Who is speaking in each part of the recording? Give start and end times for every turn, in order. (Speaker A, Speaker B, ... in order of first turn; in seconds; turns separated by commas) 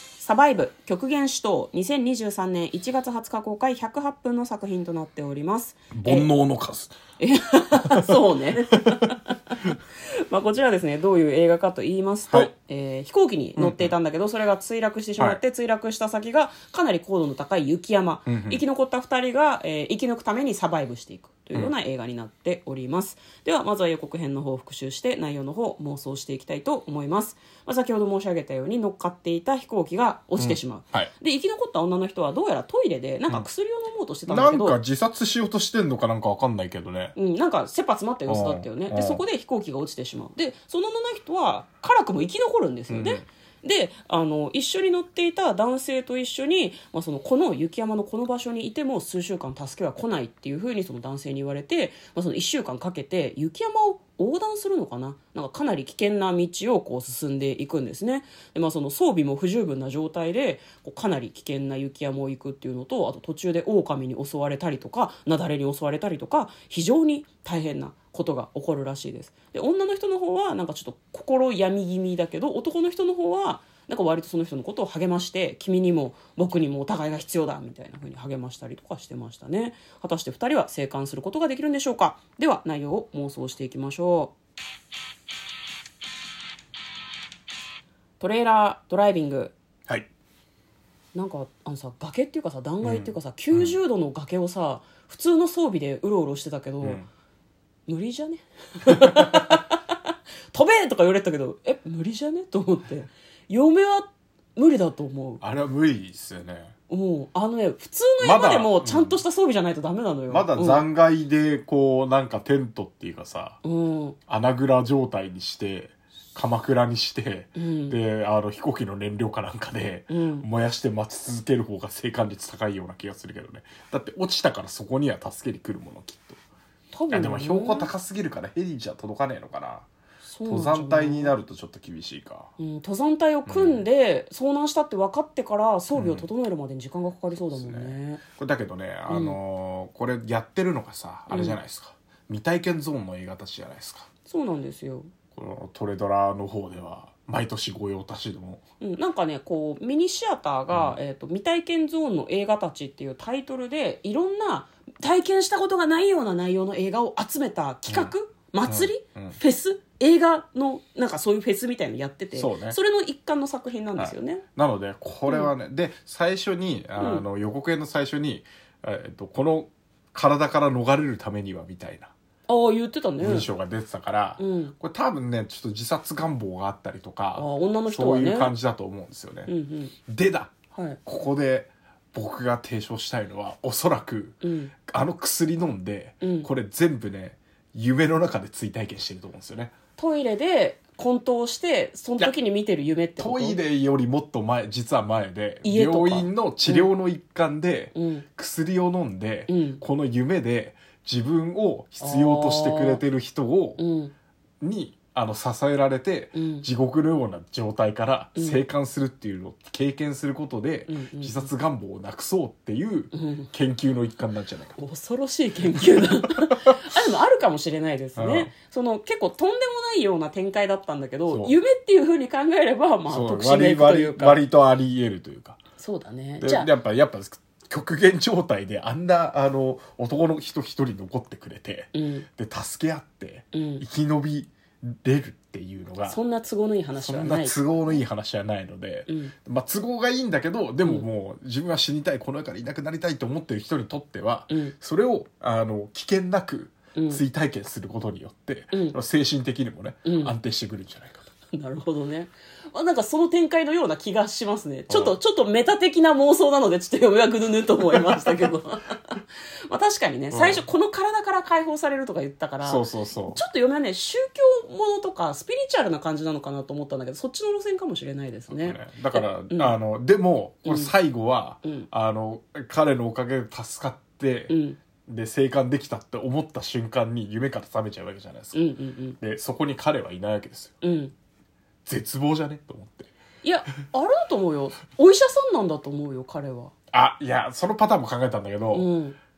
Speaker A: 0.1-6.3, Speaker B: 5.9-7.0, Speaker A: 7.2-9.6, Speaker B: 7.8-9.1, Speaker A: 10.1-34.8, Speaker B: 13.6-13.9, Speaker B: 18.2-18.6, Speaker B: 30.4-31.1, Speaker B: 34.3-37.1, Speaker A: 37.2-84.3, Speaker B: 38.3-39.2, Speaker B: 42.9-43.3, Speaker A: 88.2-89.5, Speaker A: 91.1-97.0, Speaker B: 92.8-93.8, Speaker A: 97.9-99.8, Speaker B: 99.0-99.3, Speaker A: 100.5-105.4, Speaker B: 105.4-106.7, Speaker A: 106.9-110.8, Speaker B: 108.2-109.2, Speaker B: 110.3-113.6, Speaker A: 113.6-114.2, Speaker B: 114.3-126.4, Speaker A: 117.5-118.0, Speaker A: 120.1-120.5, Speaker A: 126.9-127.9, Speaker B: 127.1-129.9, Speaker A: 130.2-131.3, Speaker B: 130.4-132.5, Speaker A: 132.6-138.2, Speaker B: 133.4-133.8, Speaker B: 135.9-136.3, Speaker B: 137.3-144.1, Speaker A: 139.1-139.4, Speaker A: 141.3-141.6, Speaker A: 144.2-145.1, Speaker B: 145.3-148.6, Speaker A: 148.8-164.4, Speaker B: 150.7-151.0, Speaker B: 157.9-158.1, Speaker B: 158.6-159.4, Speaker B: 162.3-162.8, Speaker B: 163.9-172.1, Speaker A: 167.0-167.2, Speaker A: 172.5-173.5, Speaker B: 173.2-179.5, Speaker A: 174.4-174.7, Speaker A: 177.3-178.5, Speaker A: 179.5-179.9, Speaker B: 180.1-180.5, Speaker A: 180.7-181.0, Speaker B: 181.1-189.7, Speaker A: 184.4-184.7, Speaker A: 186.2-186.5, Speaker A: 190.0-193.6, Speaker B: 193.2-203.8, Speaker A: 195.6-196.9, Speaker A: 197.9-198.2, Speaker A: 199.5-199.8, Speaker A: 202.0-203.0, Speaker A: 203.8-204.1, Speaker B: 204.6-214.8, Speaker A: 206.3-206.7, Speaker A: 208.3-208.6, Speaker A: 210.9-211.5, Speaker A: 213.1-213.5, Speaker A: 214.8-224.4, Speaker B: 215.9-216.8, Speaker B: 218.2-218.5, Speaker B: 221.3-221.6, Speaker B: 223.1-225.6, Speaker A: 225.8-226.7, Speaker B: 226.4-236.2, Speaker A: 231.9-232.3, Speaker A: 233.5-233.8, Speaker A: 236.1-238.0, Speaker B: 237.0-251.3, Speaker A: 239.1-239.3, Speaker A: 246.9-247.2, Speaker A: 248.7-249.0, Speaker A: 250.1-250.3, Speaker A: 251.5-269.8, Speaker B: 254.9-255.2, Speaker B: 260.3-260.6, Speaker B: 262.6-263.4, Speaker B: 268.5-278.6, Speaker A: 270.6-270.9, Speaker A: 271.6-271.9, Speaker A: 274.5-274.8, Speaker A: 278.5-279.2, Speaker B: 279.2-280.8, Speaker A: 280.8-281.1, Speaker B: 281.9-283.1, Speaker A: 283.4-286.7, Speaker B: 286.9-288.9, Speaker A: 288.7-289.2